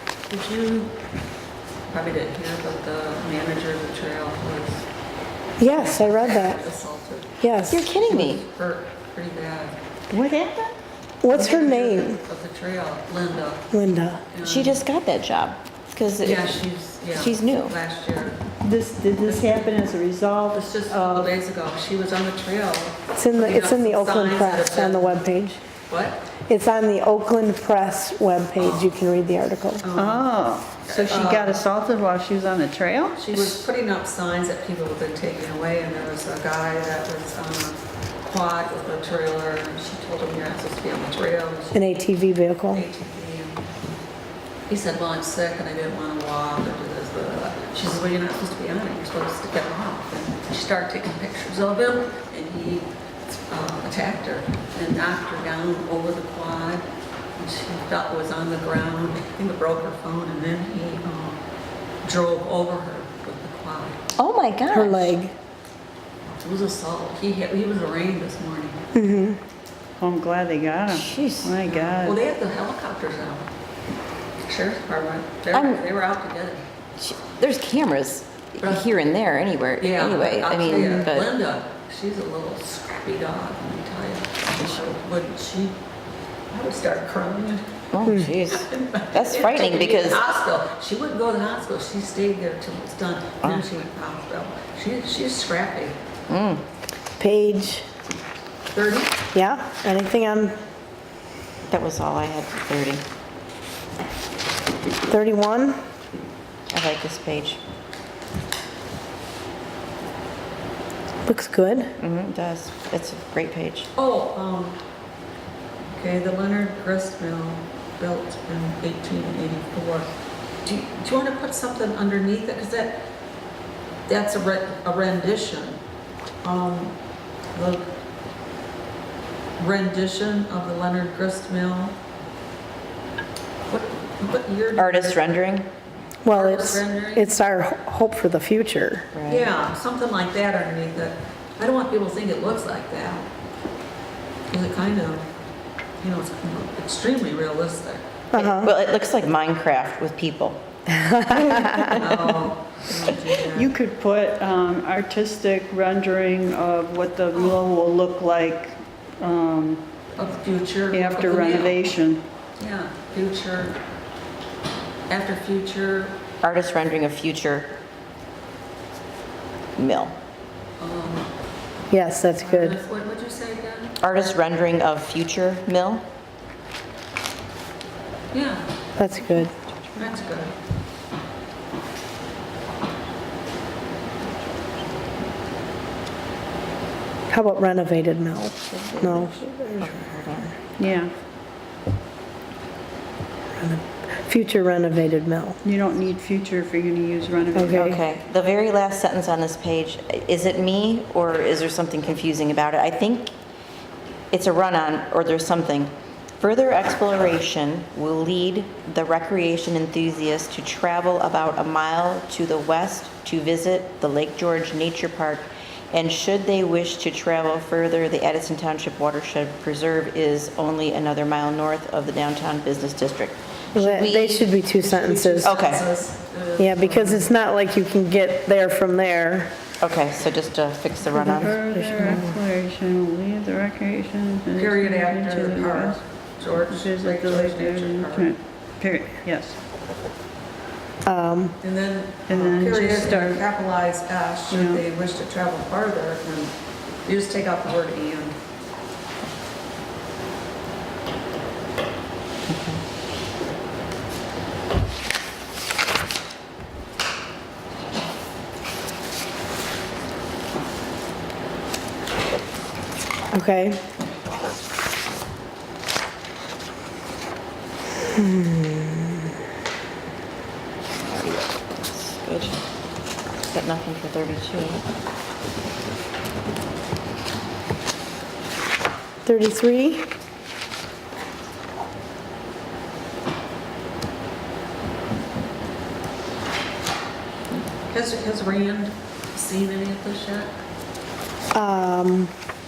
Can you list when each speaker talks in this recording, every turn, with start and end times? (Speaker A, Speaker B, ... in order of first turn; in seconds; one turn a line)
Speaker A: 0.3-0.9
Speaker A: 1.9-4.8
Speaker B: 5.6-6.6
Speaker A: 5.6-9.8
Speaker B: 7.4-7.9
Speaker C: 7.7-8.4
Speaker D: 10.1-10.8
Speaker B: 11.2-12.2
Speaker A: 11.3-13.7
Speaker B: 13.7-14.2
Speaker A: 14.3-14.8
Speaker C: 14.4-16.6
Speaker A: 16.2-18.4
Speaker C: 17.1-17.7
Speaker D: 18.6-21.3
Speaker A: 19.2-19.7
Speaker A: 20.5-25.2
Speaker B: 23.1-25.6
Speaker A: 25.9-26.2
Speaker B: 26.5-29.8
Speaker A: 28.6-28.9
Speaker A: 29.8-30.3
Speaker D: 29.9-33.6
Speaker A: 30.9-31.6
Speaker A: 33.2-41.9
Speaker B: 41.7-42.8
Speaker A: 42.7-43.6
Speaker A: 44.7-56.8
Speaker A: 57.4-61.4
Speaker A: 62.0-64.0
Speaker C: 64.2-65.1
Speaker B: 64.7-65.3
Speaker A: 66.4-68.8
Speaker B: 68.9-69.4
Speaker D: 70.0-72.2
Speaker C: 70.9-71.5
Speaker A: 71.6-73.5
Speaker A: 74.4-76.6
Speaker C: 75.5-75.8
Speaker C: 77.0-81.3
Speaker A: 79.8-85.8
Speaker A: 86.5-87.8
Speaker C: 87.9-90.3
Speaker B: 88.0-88.3
Speaker A: 88.5-96.0
Speaker C: 96.3-96.6
Speaker B: 97.2-97.8
Speaker A: 98.7-99.2
Speaker B: 99.3-100.5
Speaker C: 101.6-103.0
Speaker B: 105.1-105.8
Speaker C: 106.7-107.6
Speaker B: 111.2-111.9
Speaker C: 112.0-113.9
Speaker A: 113.9-114.8
Speaker A: 115.9-120.1
Speaker A: 120.6-123.0
Speaker A: 124.1-125.8
Speaker A: 126.4-127.0
Speaker A: 127.5-127.9
Speaker A: 129.6-131.9
Speaker A: 133.7-135.2
Speaker C: 134.8-135.7
Speaker B: 136.2-139.1
Speaker A: 136.3-137.4
Speaker C: 139.1-139.5
Speaker A: 139.3-143.3
Speaker A: 144.5-145.2
Speaker A: 146.0-148.1
Speaker B: 148.3-148.7
Speaker C: 148.3-150.6
Speaker B: 150.9-152.0
Speaker C: 151.5-152.3
Speaker A: 151.9-153.7
Speaker D: 153.5-159.8
Speaker A: 160.2-161.8
Speaker D: 160.9-162.2
Speaker A: 162.6-163.8
Speaker A: 165.1-166.2
Speaker C: 166.4-167.7
Speaker C: 169.8-170.1
Speaker A: 170.8-171.3
Speaker B: 171.9-172.8
Speaker A: 172.4-173.9
Speaker C: 174.0-176.0
Speaker A: 178.3-178.7
Speaker B: 179.0-179.5
Speaker A: 180.0-180.5
Speaker B: 187.3-190.4
Speaker C: 188.7-190.5
Speaker D: 190.8-191.1
Speaker B: 193.6-195.6
Speaker D: 195.6-197.8
Speaker B: 197.5-198.0
Speaker C: 197.7-203.3
Speaker C: 204.3-224.5
Speaker B: 223.7-225.8
Speaker A: 224.8-227.3
Speaker C: 225.4-225.8
Speaker B: 226.6-229.5
Speaker C: 229.8-232.2
Speaker D: 231.2-236.0
Speaker B: 231.4-232.3
Speaker A: 234.5-238.3
Speaker D: 236.7-239.6
Speaker B: 241.0-241.6
Speaker A: 241.6-246.5
Speaker D: 242.3-243.4
Speaker D: 244.5-244.8
Speaker A: 247.0-248.3
Speaker C: 252.5-252.8
Speaker B: 263.3-263.8
Speaker B: 268.1-269.3
Speaker C: 271.0-272.6
Speaker C: 273.5-274.8
Speaker B: 279.2-280.1
Speaker A: 287.7-290.5
Speaker B: 291.5-292.3